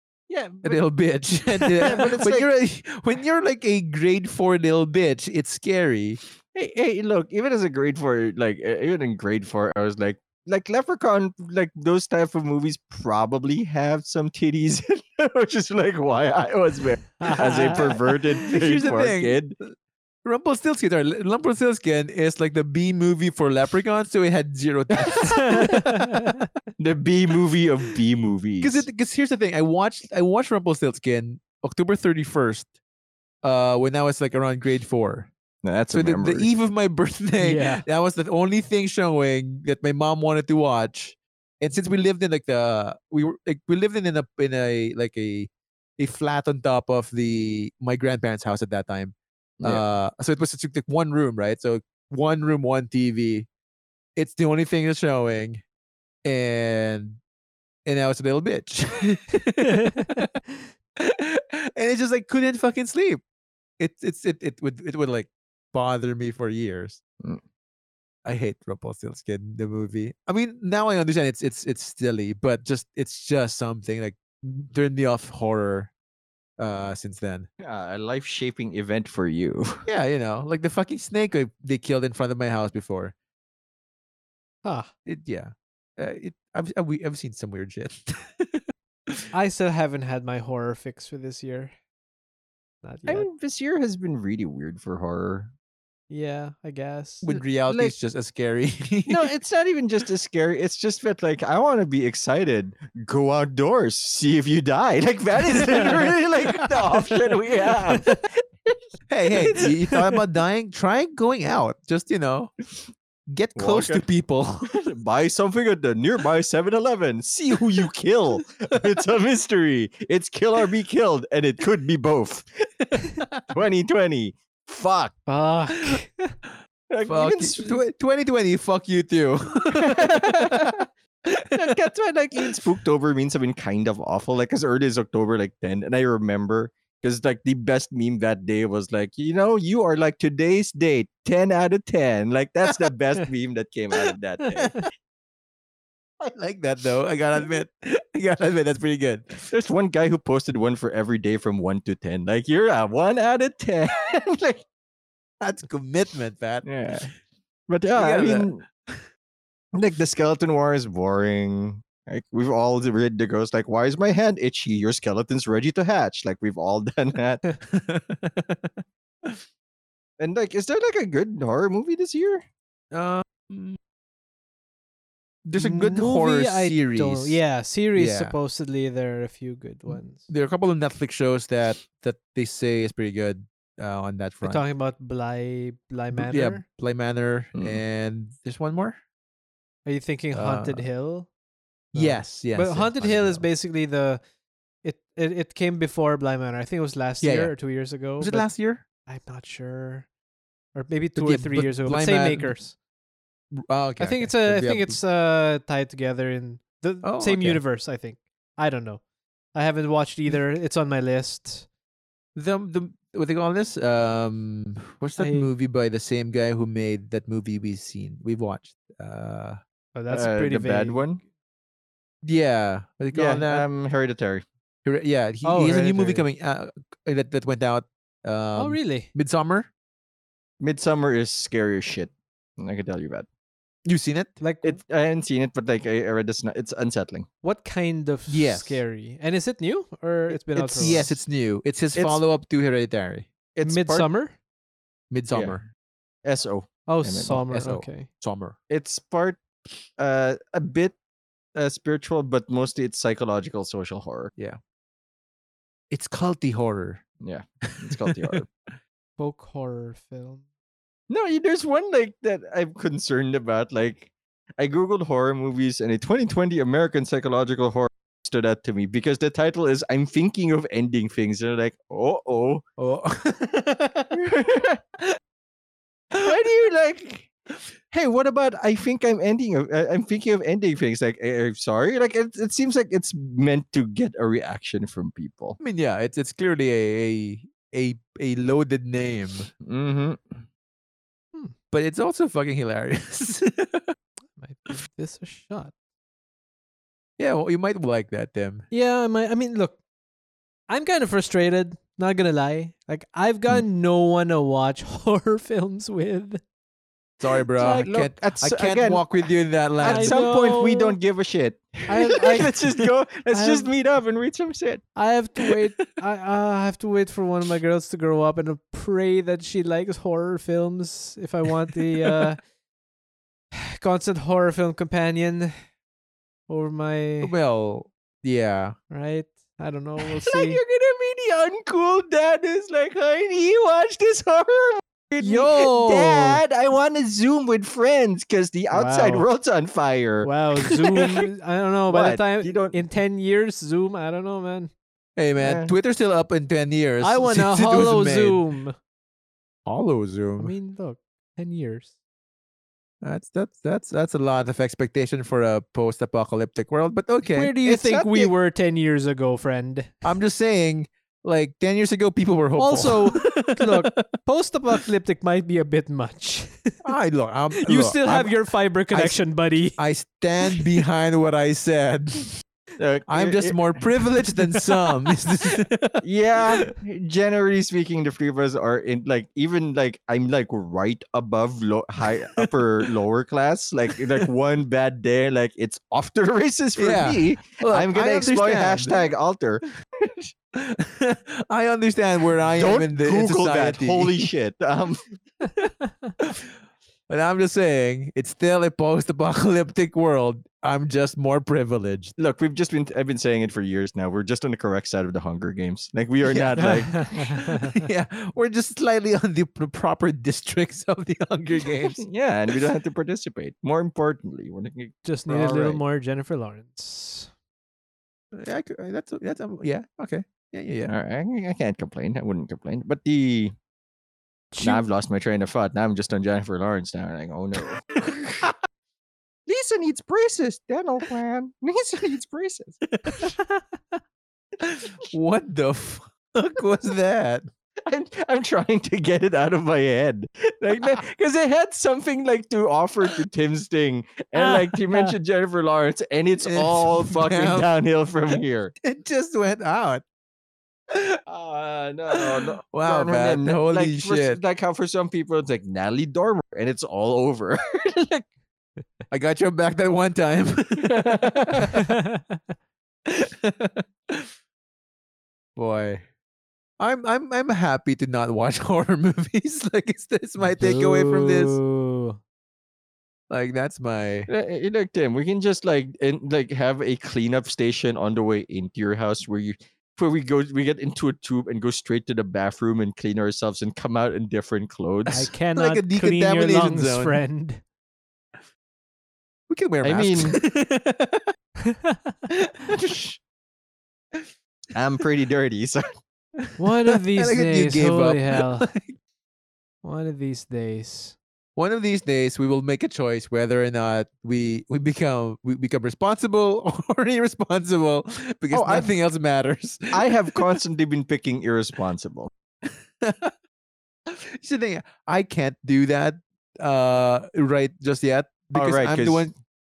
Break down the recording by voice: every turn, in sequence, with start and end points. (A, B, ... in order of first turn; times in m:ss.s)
0:00.3-0:00.8 A
0:00.6-0:06.2 B
0:01.8-0:02.5 A
0:06.5-0:19.6 A
0:17.2-0:18.0 C
0:18.5-0:19.7 B
0:20.2-0:26.3 B
0:25.1-0:25.7 A
0:25.2-0:26.4 C
0:26.8-0:28.9 A
0:28.6-0:32.7 B
0:33.4-0:35.3 B
0:35.6-0:36.5 A
0:35.9-0:53.5 B
0:37.4-0:37.8 C
0:49.6-0:49.8 A
0:54.2-0:55.6 B
0:56.2-0:57.2 B
0:57.8-1:00.3 B
0:59.6-1:00.2 C
1:01.0-1:03.2 B
1:03.8-1:07.0 B
1:08.2-1:15.9 B
1:16.6-1:17.5 B
1:17.6-1:19.8 A
1:19.9-1:23.1 B
1:24.6-1:24.9 C
1:25.1-1:29.3 B
1:29.3-1:31.7 C
1:32.8-1:33.3 C
1:33.1-1:35.5 A
1:36.1-1:37.4 C
1:37.2-1:39.3 B
1:37.7-1:38.0 A
1:39.1-1:48.8 A
1:49.1-1:52.5 B
1:53.3-1:54.8 B
1:53.6-1:54.0 A
1:54.7-2:02.5 A
2:03.5-2:05.2 A
2:05.3-2:06.4 C
2:06.9-2:07.8 A
2:07.1-2:10.8 B
2:09.8-2:10.8 A
2:11.5-2:24.9 A
2:26.2-2:29.5 B
2:29.5-2:34.6 A
2:35.4-2:37.1 B
2:36.6-2:37.1 A
2:37.7-2:38.6 A
2:38.0-2:39.0 B
2:39.7-2:47.4 A
2:47.6-2:49.4 B
2:50.2-2:52.4 A
2:52.9-2:53.8 B
2:55.4-2:57.4 B
2:55.6-3:00.3 C
2:58.0-2:58.3 B
2:59.9-3:04.6 B
3:04.4-3:06.6 C
3:06.1-3:09.0 B
3:07.6-3:07.8 A
3:09.8-3:11.3 C
3:10.3-3:10.9 B
3:11.9-3:13.4 B
3:12.0-3:14.2 C
3:14.8-3:18.5 C
3:17.2-3:17.5 B
3:18.2-3:18.8 B
3:19.1-3:20.1 C
3:20.8-3:22.8 C
3:21.2-3:22.5 B
3:23.6-3:25.0 B
3:24.0-3:29.0 C
3:27.0-3:27.6 B
3:29.5-3:31.7 C
3:32.4-3:39.6 B
3:35.2-3:35.5 C
3:40.0-3:41.2 C
3:40.1-3:41.2 A
3:42.2-3:43.7 B
3:43.1-3:44.4 A
3:44.8-3:49.7 B
3:45.4-3:46.3 C
3:48.6-3:49.1 C
3:50.6-3:53.3 A
3:53.9-3:54.3 B
3:54.4-3:54.8 C
3:54.6-3:57.3 A
3:57.4-4:01.2 C
3:58.3-3:58.8 B
4:00.3-4:03.3 B
4:02.0-4:02.2 A
4:03.6-4:04.1 A
4:03.6-4:04.3 C
4:05.1-4:05.6 B
4:05.3-4:05.6 A
4:06.2-4:07.4 A
4:06.9-4:08.1 C
4:07.5-4:08.6 B
4:08.7-4:09.4 A
4:10.0-4:11.0 A
4:11.6-4:14.3 A
4:15.9-4:17.0 B
4:17.2-4:18.5 A
4:17.7-4:18.4 B
4:19.2-4:20.4 C
4:21.1-4:32.6 A
4:32.8-4:34.2 B
4:34.1-4:34.8 A
4:36.2-4:37.3 A
4:37.9-4:45.6 A
4:45.6-4:49.5 B
4:49.6-4:50.4 A
4:51.7-4:54.0 B
4:54.4-4:55.7 C
4:57.2-4:58.7 B
4:58.7-4:59.8 C
5:00.7-5:06.4 C
5:07.2-5:10.2 B
5:07.6-5:14.8 A
5:09.8-5:11.0 C
5:11.9-5:12.5 C
5:13.3-5:13.7 C
5:15.0-5:22.4 C
5:23.5-5:25.5 C
5:26.5-5:27.3 C
5:27.2-5:28.8 B
5:28.9-5:30.6 C
5:30.0-5:41.2 A
5:35.2-5:36.4 C
5:38.7-5:39.3 C
5:40.2-5:44.7 C
5:41.9-5:42.8 A
5:45.2-5:48.4 B
5:45.4-5:45.7 A
5:47.0-5:48.8 C
5:49.7-5:50.5 B
5:50.4-5:51.9 C
5:53.0-5:57.5 B
5:57.4-6:00.1 C
5:57.6-5:58.3 A
6:00.0-6:04.1 B
6:02.6-6:06.8 C
6:06.8-6:08.3 B
6:07.6-6:09.8 C
6:08.9-6:09.2 B
6:09.8-6:12.4 B
6:12.8-6:13.6 A
6:13.1-6:16.0 B
6:14.5-6:15.5 C
6:16.0-6:30.3 A
6:26.8-6:29.1 B
6:30.6-6:34.2 B
6:32.5-6:35.0 A
6:36.2-6:36.5 B
6:37.1-6:42.2 B
6:42.2-6:47.4 A
6:46.3-6:46.8 B
6:46.6-6:47.8 C
6:47.4-6:52.0 B
6:52.0-6:55.8 A
6:55.0-6:57.3 C
6:58.3-7:00.9 B
7:00.9-7:03.6 A
7:04.5-7:04.8 C
7:04.6-7:08.5 A
7:09.5-7:12.8 A
7:13.0-7:13.3 B
7:14.6-7:17.5 B
7:17.9-7:28.7 A
7:24.4-7:25.1 B
7:26.4-7:27.7 B
7:28.8-7:30.0 B
7:30.9-7:31.2 B
7:31.3-7:38.2 A
7:32.1-7:34.4 B
7:39.1-7:41.8 B
7:40.8-7:41.8 A
7:41.8-7:42.4 C
7:43.1-7:44.3 B
7:45.6-7:46.0 B
7:46.8-7:51.6 B
7:50.6-7:52.2 C
7:53.3-7:54.3 B
7:54.3-8:05.3 A
8:05.1-8:07.2 B
8:05.1-8:07.6 C
8:09.5-8:11.3 B
8:09.8-8:10.4 A
8:11.7-8:12.0 C
8:12.3-8:12.6 B
8:12.7-8:13.2 A
8:14.7-8:15.9 A
8:16.4-8:19.0 B
8:16.6-8:18.7 C
8:19.8-8:21.2 C
8:21.6-8:30.5 B
8:28.5-8:28.9 A
8:29.9-8:32.3 A
8:33.0-8:33.3 B
8:34.1-8:39.3 B
8:38.6-8:39.3 A